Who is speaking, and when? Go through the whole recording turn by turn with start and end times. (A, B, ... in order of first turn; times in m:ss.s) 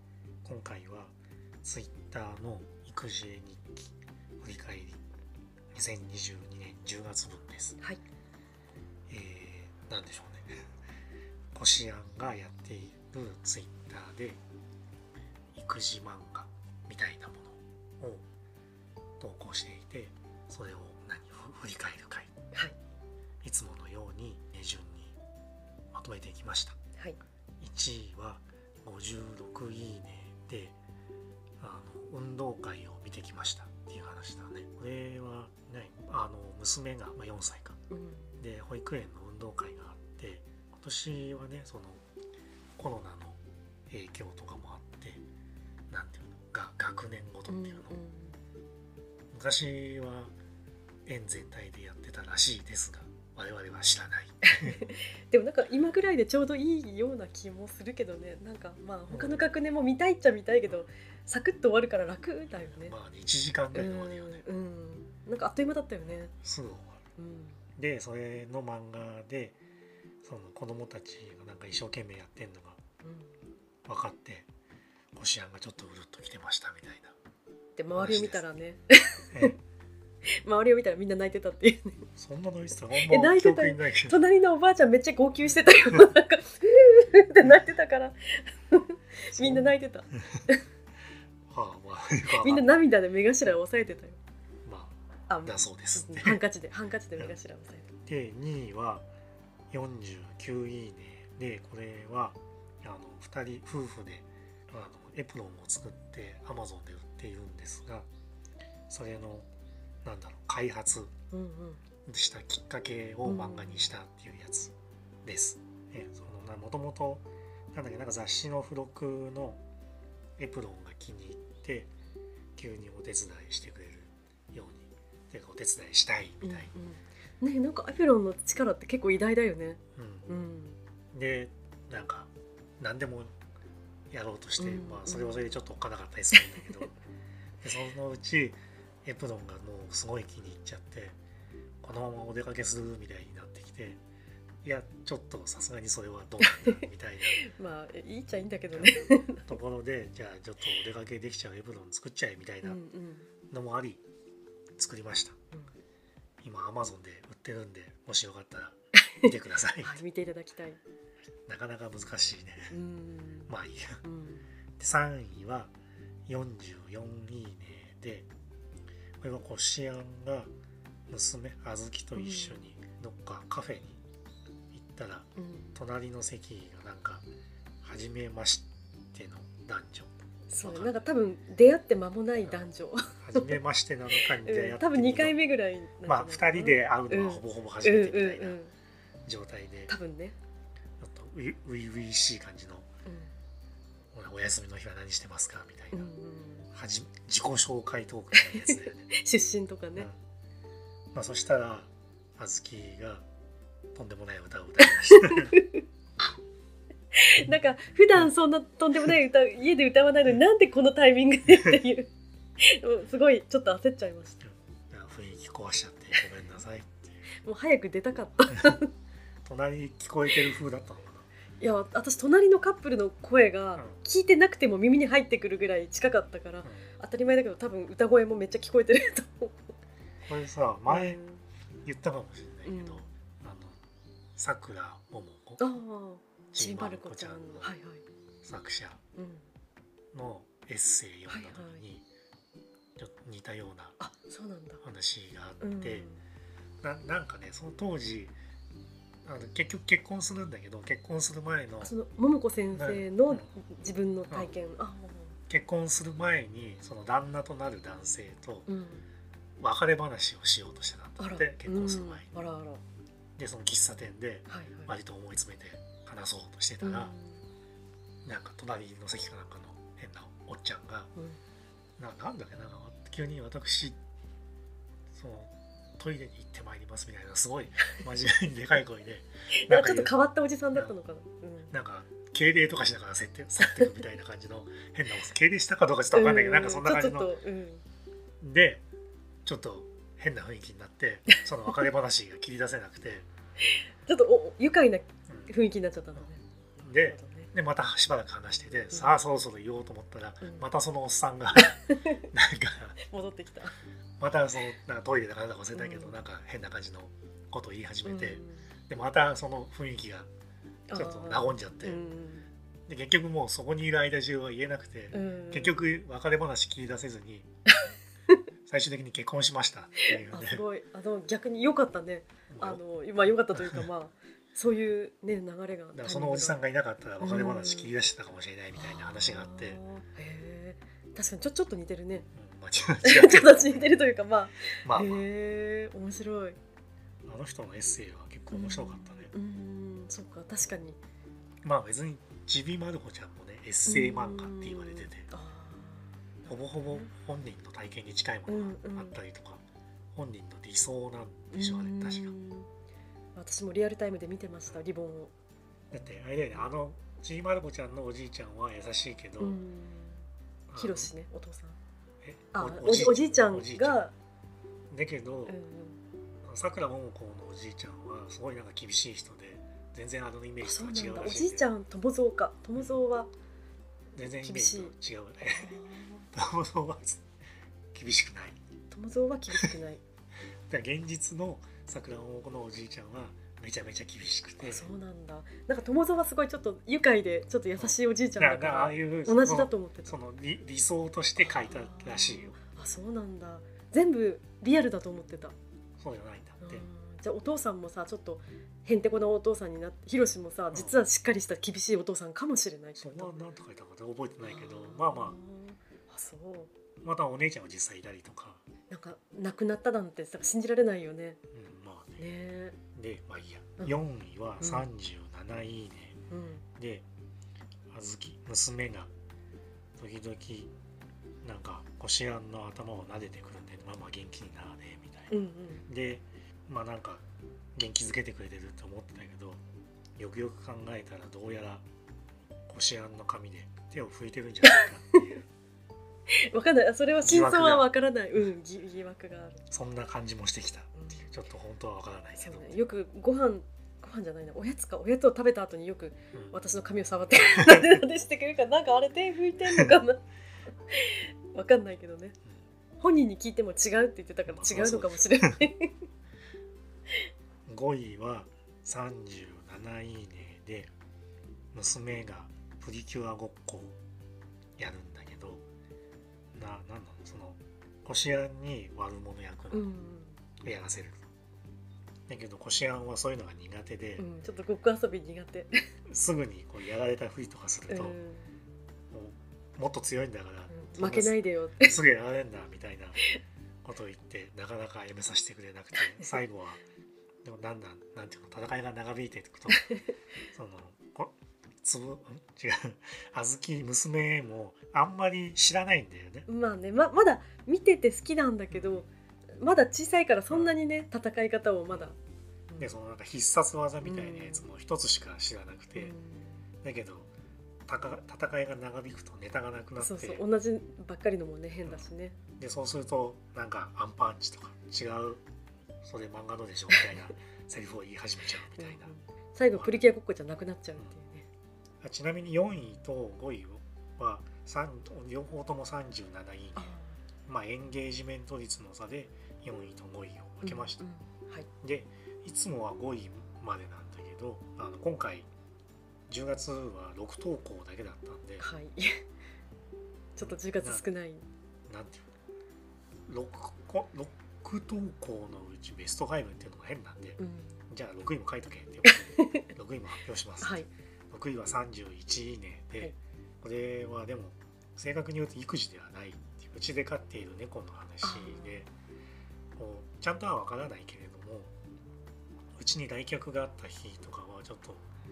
0:00.4-0:05.0 A
0:05.7-0:07.8 A
0:09.1-0:10.7 A
0:11.5-0:14.4 A
0:15.6-0:18.2 A
0:19.2-0:22.3 A
0:23.4-0:25.2 A
0:25.9-0:26.8 A
0:27.6-0:30.8 A
0:31.6-0:37.8 A
0:37.9-0:38.4 B
0:38.4-0:42.0 A
0:42.8-0:45.2 A
0:45.9-0:48.0 A
0:47.5-0:48.4 B
0:49.3-0:50.3 A
0:51.0-0:54.8 A
0:54.5-1:03.0 B
0:59.1-0:59.5 A
1:02.7-1:04.4 A
1:03.7-1:06.3 B
1:06.3-1:07.0 A
1:07.2-1:07.6 B
1:07.8-1:09.6 A
1:10.2-1:12.8 A
1:13.0-1:13.3 B
1:13.9-1:14.5 A
1:15.2-1:17.2 A
1:17.8-1:19.5 B
1:17.9-1:18.4 A
1:19.3-1:19.6 A
1:20.4-1:22.0 B
1:22.2-1:24.2 A
1:23.0-1:30.6 B
1:29.4-1:29.7 A
1:31.5-1:32.7 A
1:32.4-1:34.2 B
1:34.6-1:36.4 A
1:35.3-1:37.9 B
1:38.1-1:39.1 A
1:39.7-1:48.1 A
1:48.9-1:49.5 A
1:50.0-1:51.1 A
1:51.3-1:51.8 B
1:52.1-1:59.6 A
1:53.2-1:53.9 B
2:00.4-2:01.9 A
2:02.6-2:06.7 A
2:06.4-2:10.8 B
2:10.0-2:10.3 A
2:11.1-2:13.4 A
2:14.1-2:16.9 A
2:14.6-2:15.5 B
2:16.4-2:16.7 B
2:17.6-2:21.2 A
2:21.8-2:24.0 A
2:24.6-2:27.4 A
2:26.4-2:29.6 B
2:28.7-2:32.8 A
2:32.6-2:33.3 B
2:33.5-2:34.0 A
2:34.8-2:35.4 A
2:36.4-2:40.0 A
2:39.1-2:40.8 B
2:41.5-2:42.7 A
2:42.7-2:43.5 B
2:43.5-2:44.0 A
2:44.0-2:44.5 B
2:44.8-2:45.7 A
2:46.3-2:48.3 A
2:49.2-2:50.5 A
2:51.1-2:54.0 A
2:52.2-2:52.6 B
2:54.7-2:57.2 A
2:55.4-2:55.8 B
2:57.8-3:01.1 A
3:00.5-3:03.6 B
3:03.2-3:05.4 A
3:04.2-3:08.7 B
3:06.0-3:08.6 A
3:09.2-3:09.9 A
3:09.9-3:10.4 B
3:11.0-3:12.9 A
3:13.1-3:13.3 B
3:14.1-3:16.1 A
3:15.9-3:16.7 B
3:16.7-3:19.1 A
3:18.3-3:20.1 B
3:21.1-3:23.2 A
3:23.9-3:25.5 A
3:24.8-3:25.8 B
3:27.2-3:32.1 B
3:32.6-3:34.4 B
3:34.4-3:37.3 A
3:37.3-3:38.9 B
3:39.4-3:41.3 A
3:41.6-3:49.6 B
3:50.2-3:51.2 A
3:50.9-3:51.4 B
3:51.8-3:53.8 A
3:52.6-3:53.1 B
3:54.4-3:55.6 A
3:55.6-3:58.0 B
3:56.5-3:57.7 A
3:58.4-3:59.0 A
3:59.2-3:59.5 B
4:00.1-4:02.1 A
4:01.3-4:01.8 B
4:03.0-4:04.0 A
4:04.0-4:04.8 B
4:04.8-4:06.1 A
4:05.6-4:06.2 B
4:06.8-4:08.4 A
4:09.2-4:11.9 A
4:11.8-4:15.4 B
4:12.7-4:13.5 A
4:15.5-4:18.7 A
4:18.7-4:19.1 B
4:19.6-4:22.3 A
4:21.2-4:22.8 B
4:23.4-4:27.2 A
4:24.5-4:24.9 B
4:26.8-4:27.4 B
4:28.2-4:31.1 A
4:32.0-4:34.0 A
4:35.1-4:40.2 A
4:39.5-4:41.7 B
4:41.7-4:47.3 A
4:46.1-4:47.8 B
4:48.4-4:48.8 A
4:49.4-4:53.3 A
4:54.0-4:57.5 B
4:55.3-4:55.5 A
4:56.8-5:03.0 A
5:01.6-5:02.3 B
5:03.0-5:03.8 B
5:04.2-5:10.3 A
5:05.8-5:06.2 B
5:08.1-5:08.7 B
5:10.9-5:12.5 B
5:10.9-5:12.0 A
5:12.9-5:17.5 A
5:15.1-5:15.8 B
5:18.7-5:20.6 A
5:20.1-5:26.6 B
5:22.5-5:22.8 A
5:23.5-5:23.9 A
5:25.9-5:29.8 A
5:27.2-5:27.9 B
5:28.8-5:32.3 B
5:32.4-5:34.0 A
5:33.0-5:36.6 B
5:34.8-5:35.3 A
5:37.3-5:39.3 A
5:38.5-5:41.0 B
5:41.6-5:45.3 A
5:43.9-5:47.1 B
5:46.5-5:49.6 A
5:48.5-5:49.2 B
5:50.2-5:52.4 A
5:51.5-5:52.7 B
5:53.4-5:55.3 B
5:55.9-5:59.6 A
5:59.4-6:01.8 B
6:00.7-6:01.1 A
6:02.2-6:04.0 A
6:02.5-6:04.1 B
6:04.9-6:05.6 A
6:05.5-6:06.0 B
6:06.4-6:11.7 A
6:10.6-6:13.3 B
6:14.2-6:17.2 A
6:14.4-6:14.9 B
6:15.5-6:16.3 B
6:17.9-6:18.6 A
6:18.9-6:20.0 B
6:20.7-6:24.9 A
6:24.6-6:30.2 B
6:27.8-6:32.6 A
6:31.4-6:35.6 B
6:36.0-6:36.9 A
6:36.6-6:43.4 B
6:40.7-6:41.0 A
6:43.0-6:45.4 A
6:44.4-6:46.7 B
6:47.0-6:48.6 A
6:48.9-6:51.4 B
6:51.5-6:52.3 A
6:52.2-6:52.8 B
6:52.9-6:56.2 A
6:54.6-6:54.9 B
6:56.3-6:56.6 B
6:56.8-6:57.0 A
6:57.9-6:59.1 A
7:00.0-7:00.7 A
7:01.4-7:05.3 A
7:05.3-7:05.9 B
7:05.9-7:07.2 A
7:07.8-7:09.6 A
7:10.2-7:11.8 A
7:12.7-7:15.5 A
7:14.6-7:15.2 B
7:16.3-7:19.6 B
7:17.2-7:17.9 A
7:19.7-7:22.9 A
7:21.0-7:21.3 B
7:22.4-7:30.2 B
7:30.9-7:32.4 B
7:33.0-7:36.0 B
7:34.5-7:35.6 A
7:37.7-7:40.9 A
7:41.7-7:44.0 A
7:44.8-7:45.6 A
7:46.6-7:49.9 A
7:49.7-7:50.4 B
7:50.6-7:51.3 A
7:52.3-7:54.3 A
7:54.2-7:55.7 B
7:56.1-7:58.2 A
7:57.9-7:58.5 B
7:59.1-8:03.2 A
8:00.7-8:02.0 B
8:03.8-8:06.8 A
8:06.0-8:06.4 B
8:07.4-8:09.9 A
8:10.5-8:16.5 A
8:16.5-8:22.2 B
8:18.7-8:19.0 A
8:20.5-8:20.8 A
8:22.8-8:26.1 A
8:24.0-8:24.7 B
8:26.0-8:26.6 B
8:26.8-8:27.3 A
8:27.9-8:30.4 A
8:30.0-8:32.4 B
8:32.6-8:35.4 A
8:36.0-8:39.1 A
8:36.9-8:37.2 B
8:38.8-8:41.5 B
8:39.7-8:40.0 A
8:42.0-8:47.0 A
8:46.8-8:47.2 B
8:47.5-8:51.0 A
8:50.6-8:51.7 B
8:51.8-8:55.5 A
8:56.3-8:58.7 A
8:58.6-8:59.2 B
9:00.4-9:01.4 B
9:00.4-9:01.0 A
9:01.9-9:02.3 A
9:03.3-9:18.9 A
9:07.4-9:07.8 B
9:09.1-9:09.7 B
9:10.6-9:10.9 B
9:18.2-9:18.9 B
9:19.8-9:21.7 A
9:22.8-9:25.0 A